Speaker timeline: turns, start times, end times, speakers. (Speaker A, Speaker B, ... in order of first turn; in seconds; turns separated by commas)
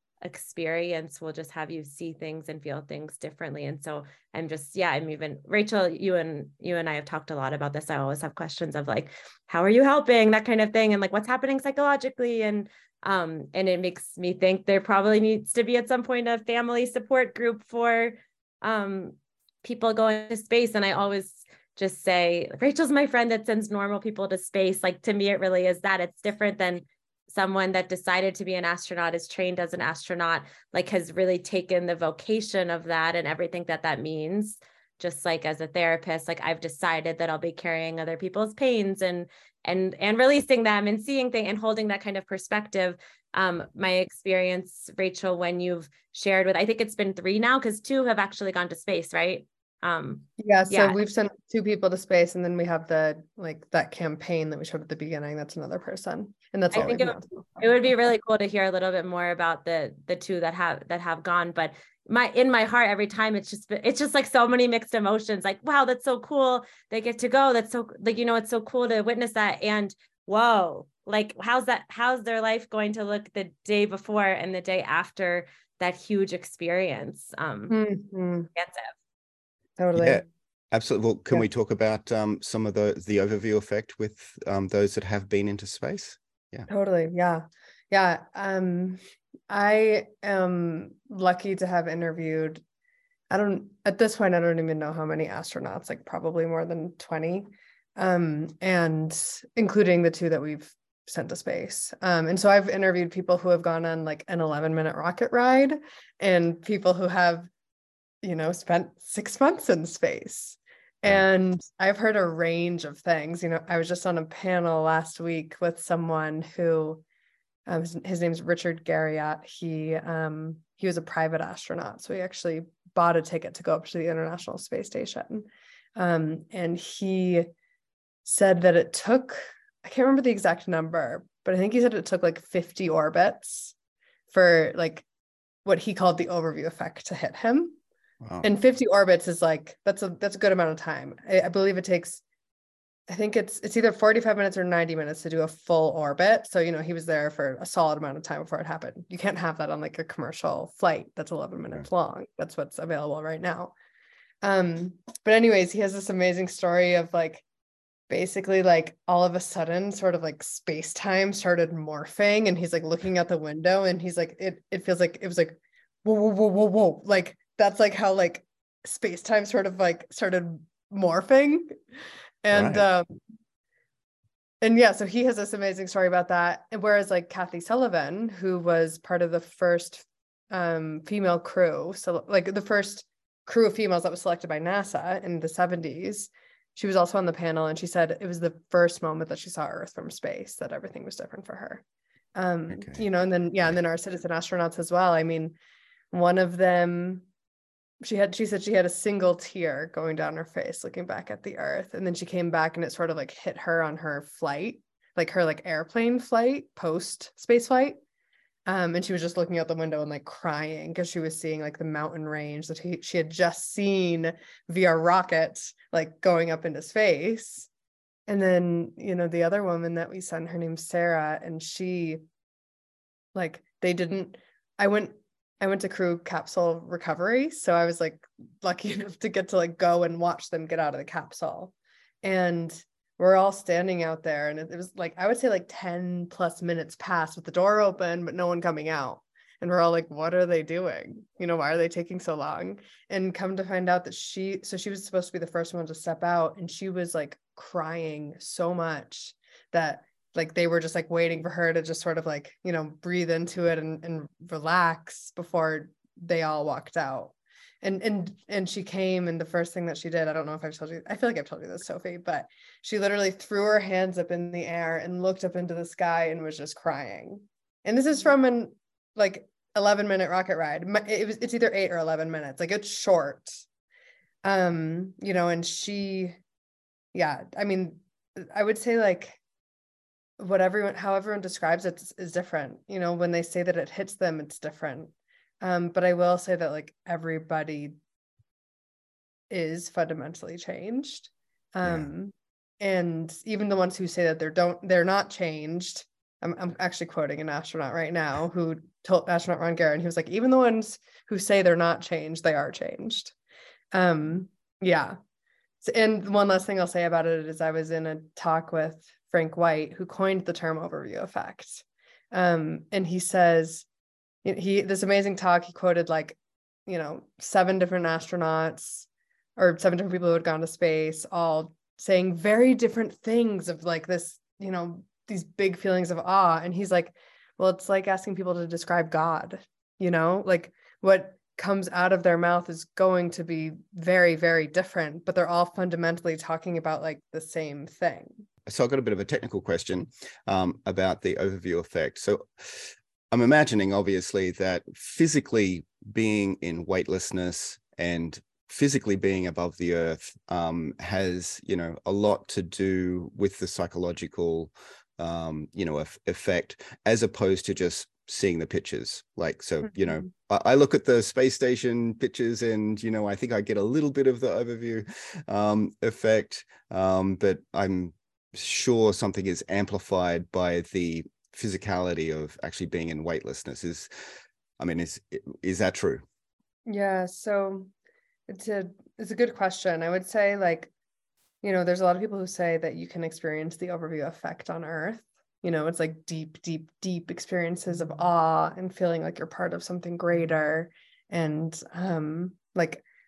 Speaker A: 0.2-51.0, Speaker B: 50.4-57.3, Speaker A: 56.7-77.8, Speaker B: 77.7-78.5, Speaker A: 78.5-78.9, Speaker B: 79.8-80.2, Speaker C: 79.9-86.7, Speaker B: 86.7-92.6, Speaker B: 93.3-107.5, Speaker B: 108.2-117.0, Speaker B: 117.7-127.5, Speaker B: 128.2-133.7, Speaker B: 134.3-135.0, Speaker B: 135.6-137.8, Speaker C: 138.2-138.5, Speaker B: 138.4-142.2, Speaker B: 143.1-153.7, Speaker B: 154.4-157.4, Speaker B: 158.1-171.8, Speaker B: 172.4-173.2, Speaker C: 172.5-172.8, Speaker B: 174.6-191.8, Speaker B: 192.3-195.5, Speaker C: 192.7-193.0, Speaker B: 196.1-197.2, Speaker B: 198.0-208.0, Speaker B: 208.7-217.7, Speaker B: 218.3-222.2, Speaker B: 223.3-273.6, Speaker B: 274.4-276.4, Speaker B: 277.1-279.4, Speaker B: 280.4-287.9, Speaker B: 289.5-303.3, Speaker C: 291.8-292.1, Speaker B: 303.9-305.2, Speaker B: 305.8-313.8, Speaker B: 314.4-338.4, Speaker C: 338.7-374.1, Speaker C: 374.8-376.2, Speaker B: 376.9-377.9, Speaker B: 378.5-380.9, Speaker B: 381.6-393.0